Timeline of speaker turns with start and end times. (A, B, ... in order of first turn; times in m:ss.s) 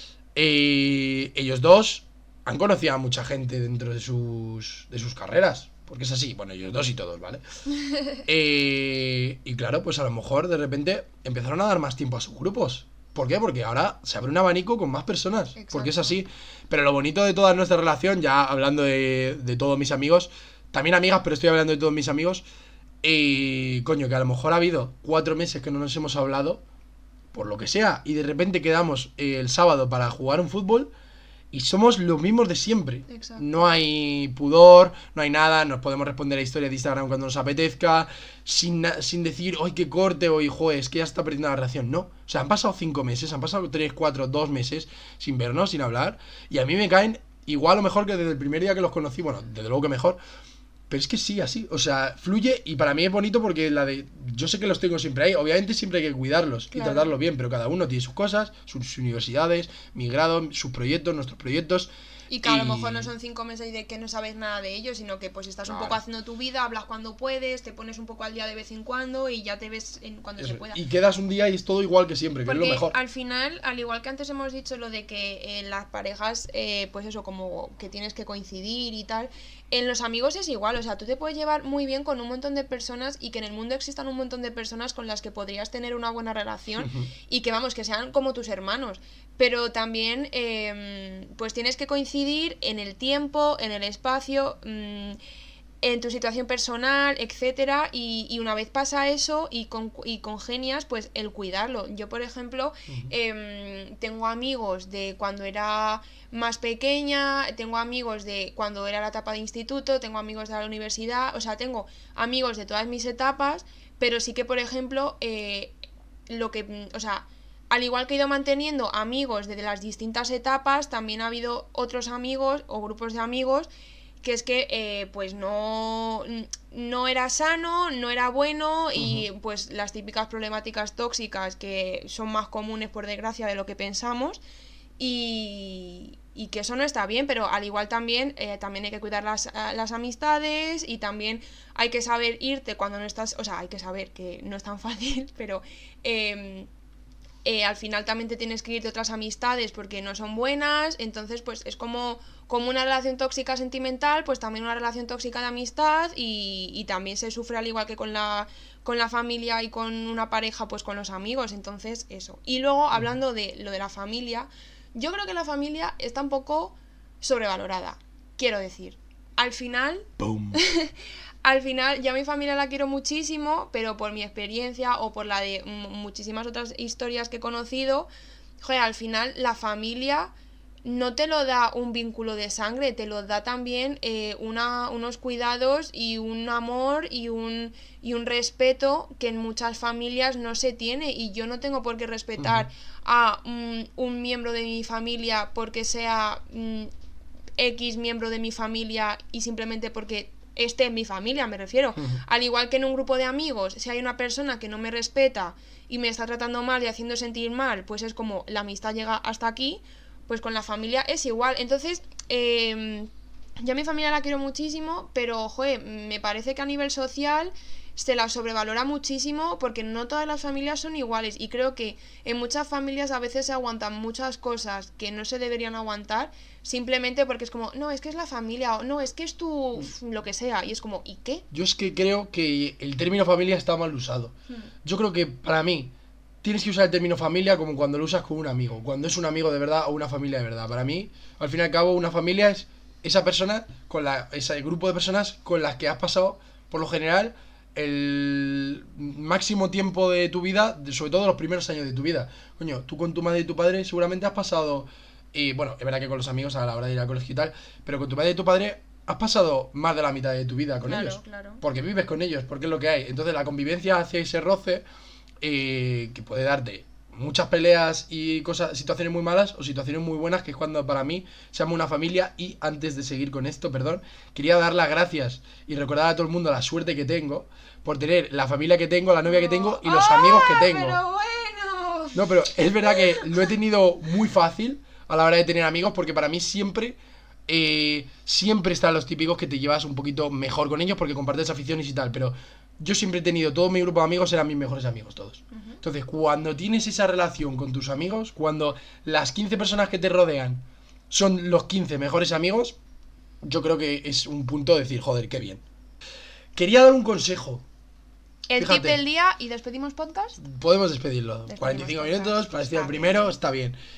0:00.3-0:07.4 A
0:08.2-0:22.4 A
0:15.6-0:16.1 B
0:23.0-0:26.6 A
0:27.3-0:30.9 A
0:31.5-0:50.2 A
0:33.1-0:33.7 B
0:50.9-1:01.9 A
0:56.7-0:57.1 B
1:02.3-1:10.8 B
1:02.4-1:03.1 A
1:05.6-1:06.0 A
1:10.4-1:13.0 A
1:12.4-1:35.2 B
1:26.8-1:27.1 A
1:35.8-1:55.7 B
1:56.3-2:03.7 B
2:04.2-2:14.4 B
2:09.0-2:09.2 A
2:15.0-2:26.7 B
2:27.4-2:58.1 B
2:50.2-2:50.6 A
2:58.6-3:00.3 B
3:00.8-3:16.9 B
3:12.4-3:12.6 A
3:17.6-3:33.1 B
3:33.6-3:51.4 B
3:51.5-4:24.8 A
4:20.8-4:21.6 B
4:25.4-4:41.0 A
4:39.3-4:43.5 B
4:42.1-5:02.8 A
4:55.5-4:55.8 B
5:03.4-5:05.6 A
5:06.5-5:07.6 A
5:08.5-5:10.4 B
5:08.6-5:09.0 A
5:10.4-5:13.8 A
5:11.5-5:13.4 B